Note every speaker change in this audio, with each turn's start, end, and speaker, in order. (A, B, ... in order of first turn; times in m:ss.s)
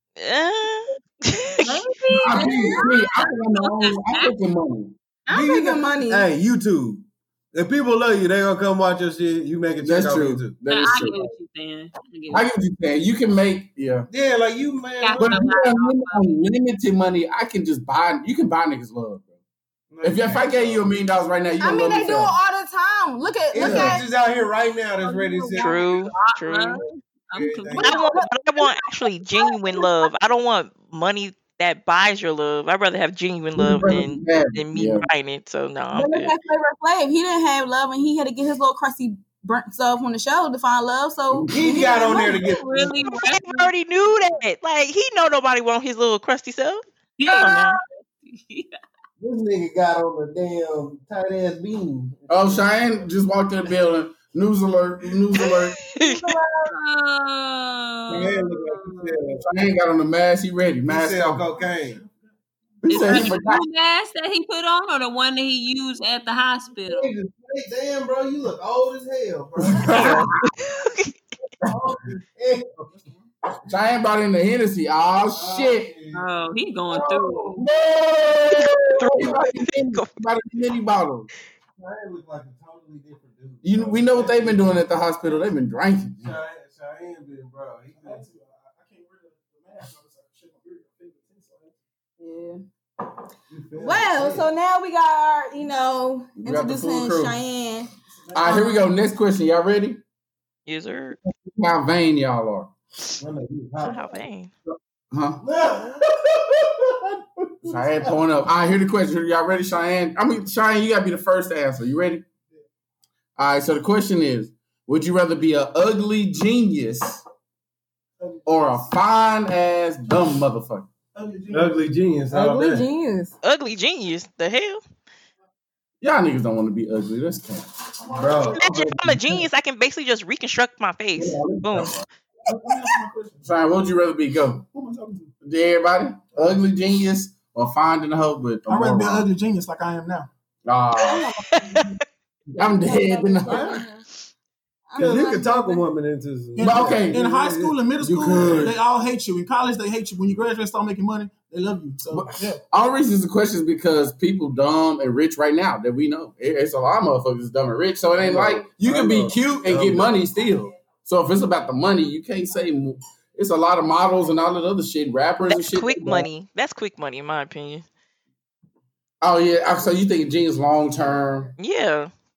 0:00.2-0:02.0 A
0:01.6-0:04.4 B
0:02.2-0:05.0 C
0:02.3-0:03.0 D
0:05.3-0:06.3 D
0:05.3-0:07.0 E
0:07.5-0:10.6 E
0:09.8-0:11.3 C
0:10.7-0:12.5 B
0:12.3-0:14.1 C
0:14.1-0:15.4 E
0:15.0-0:16.4 B
0:15.2-0:19.2 C
0:19.9-0:20.9 E
0:20.0-0:22.4 C
0:21.6-0:24.1 D
0:23.5-0:25.8 E
0:23.6-0:24.0 C
0:25.0-0:28.1 B
0:25.6-0:26.8 A
0:27.3-0:28.0 E
0:27.8-0:29.8 D
0:27.8-0:36.3 A
0:33.5-0:35.0 C
0:35.9-0:42.0 D
0:41.3-0:41.8 C
0:41.5-0:43.0 E
0:41.7-0:43.7 B
0:43.1-0:47.8 A
0:47.2-0:48.8 B
0:49.2-0:52.9 E
0:52.3-0:55.8 C
0:55.4-0:56.4 A
0:56.0-0:56.7 D
0:56.6-0:59.2 B
0:58.1-0:59.4 E
0:59.4-1:01.4 C
1:00.8-1:02.0 E
1:02.8-1:03.6 C
1:02.9-1:07.1 B
1:06.8-1:10.2 E
1:09.7-1:10.4 C
1:09.9-1:11.1 A
1:11.6-1:12.9 E
1:12.9-1:13.2 F
1:13.6-1:15.9 C
1:15.2-1:16.2 E
1:16.1-1:17.6 B
1:17.1-1:17.5 E
1:17.6-1:21.3 C
1:18.9-1:20.1 A
1:21.8-1:24.8 E
1:23.6-1:26.3 C
1:26.2-1:28.2 E
1:28.0-1:31.7 F
1:32.2-1:32.6 D
1:33.5-1:34.4 E
1:33.8-1:37.9 D
1:36.4-1:37.4 C
1:38.3-1:40.0 C
1:38.4-1:38.8 D
1:40.6-1:41.2 A
1:41.4-1:42.7 C
1:43.2-1:44.2 E
1:43.8-1:44.5 A
1:44.7-1:45.4 C
1:45.4-1:46.0 E
1:47.6-1:52.2 C
1:53.4-1:57.2 C
1:58.4-2:00.9 C
2:01.2-2:01.8 F
2:01.5-2:02.8 E
2:02.3-2:03.3 D
2:03.4-2:04.8 A
2:06.0-2:07.7 C
2:08.1-2:08.6 F
2:08.1-2:08.6 E
2:08.6-2:12.0 A
2:08.6-2:09.4 C
2:11.1-2:12.0 C
2:12.5-2:13.5 F
2:13.4-2:14.6 C
2:14.7-2:15.3 F
2:15.4-2:19.3 C
2:18.7-2:20.3 F
2:20.6-2:21.3 C
2:21.0-2:21.9 D
2:21.5-2:22.0 A
2:22.5-2:23.8 C
2:22.6-2:24.0 D
2:23.5-2:23.8 E
2:24.9-2:25.8 D
2:25.0-2:27.7 E
2:26.6-2:32.6 F
2:26.6-2:27.2 C
2:28.0-2:28.7 C
2:28.3-2:28.7 E
2:32.1-2:46.3 C
2:38.2-2:40.1 E
2:45.4-2:47.8 A
2:49.2-2:51.5 C
2:51.6-2:52.1 A